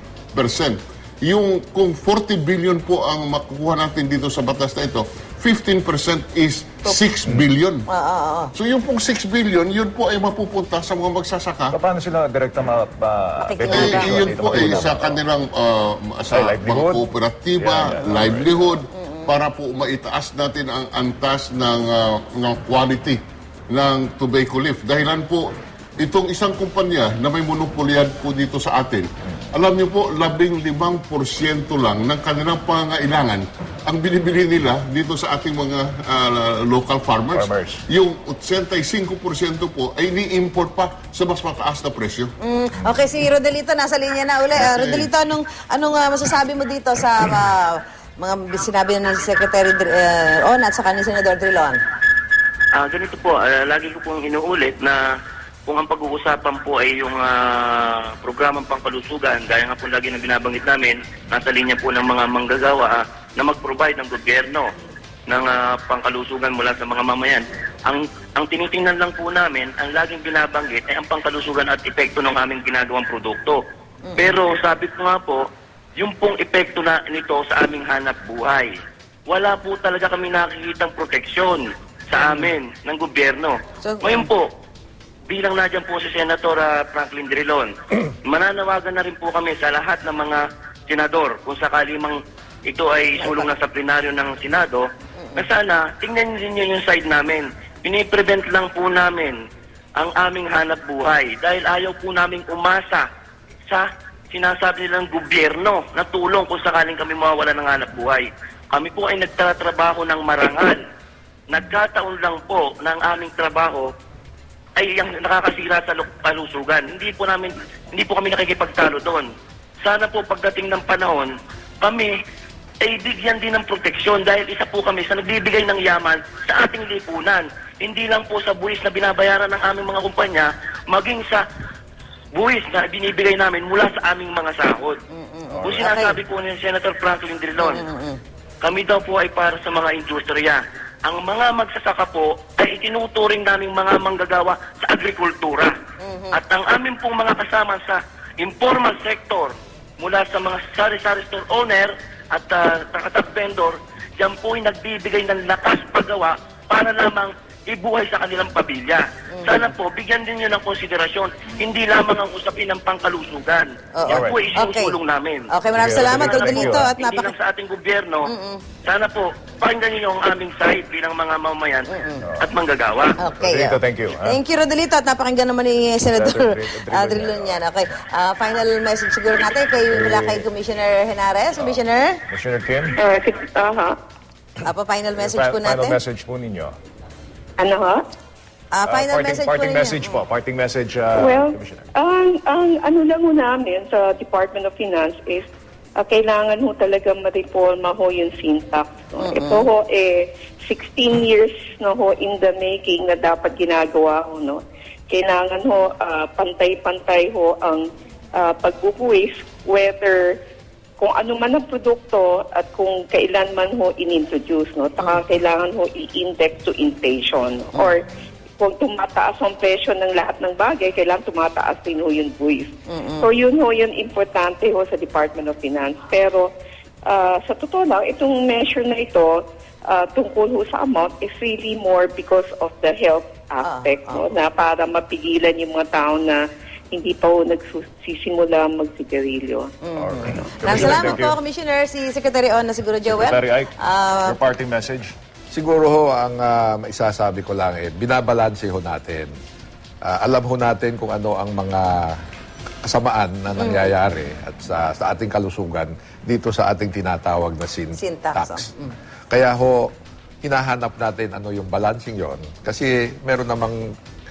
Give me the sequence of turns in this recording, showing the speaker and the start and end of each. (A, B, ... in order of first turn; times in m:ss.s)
0:00.3-0:07.8 A
0:07.9-0:08.5 B
0:08.5-0:11.8 A
0:11.7-0:15.2 C
0:13.4-0:14.8 B
0:13.7-0:42.3 A
0:16.3-0:18.6 C
0:19.0-0:19.3 B
0:37.3-0:37.8 C
0:42.4-0:51.8 B
0:44.6-0:45.0 A
0:44.7-0:45.0 C
0:52.8-0:55.0 D
0:55.7-1:04.7 D
1:05.3-1:13.6 D
1:14.1-1:14.3 B
1:14.2-1:15.4 D
1:16.0-1:18.7 D
1:19.3-1:24.5 D
1:22.2-1:22.5 B
1:23.8-1:24.3 B
1:25.3-1:27.7 D
1:28.2-1:39.4 D
1:33.2-1:33.5 B
1:35.2-1:35.4 B
1:40.0-1:43.0 D
1:43.7-1:50.8 D
1:51.5-1:53.9 D
1:54.8-1:59.3 D
1:59.8-2:02.1 D
2:02.8-2:11.4 D
2:12.3-2:15.0 D
2:15.1-2:16.2 B
2:15.5-2:15.9 C
2:15.6-2:17.8 D
2:17.6-2:18.2 B
2:18.6-2:25.7 D
2:26.0-2:26.4 B
2:26.3-2:48.3 D
2:39.3-2:39.7 B
2:43.9-2:45.0 B
2:44.1-2:44.4 C
2:45.5-2:47.3 B
2:45.8-2:46.9 C
2:48.3-2:48.6 B
2:48.8-2:51.9 D
2:51.9-2:52.2 B
2:52.2-2:52.5 C
2:52.4-2:53.2 D
2:53.2-3:02.2 B
2:53.3-2:54.4 C
2:56.1-2:58.0 C
2:59.9-3:00.4 C
3:01.5-3:03.0 C
3:03.0-3:04.0 E
3:04.6-3:06.0 B
3:05.1-3:06.8 C
3:07.6-3:08.0 E
3:08.7-3:10.2 B
3:08.8-3:11.8 C
3:11.2-3:30.4 E
3:19.2-3:19.7 B
3:31.0-3:38.0 E
3:38.6-3:46.5 E
3:42.9-3:43.3 B
3:47.0-3:59.8 E
3:53.6-3:54.2 B
3:59.8-4:04.4 B
3:59.9-4:01.4 C
4:03.0-4:03.7 C
4:04.2-4:05.1 C
4:05.5-4:09.3 F
4:10.0-4:12.2 F
4:12.8-4:18.7 F
4:13.6-4:13.9 B
4:18.0-4:18.9 B
4:19.3-4:19.9 F
4:20.4-4:23.9 F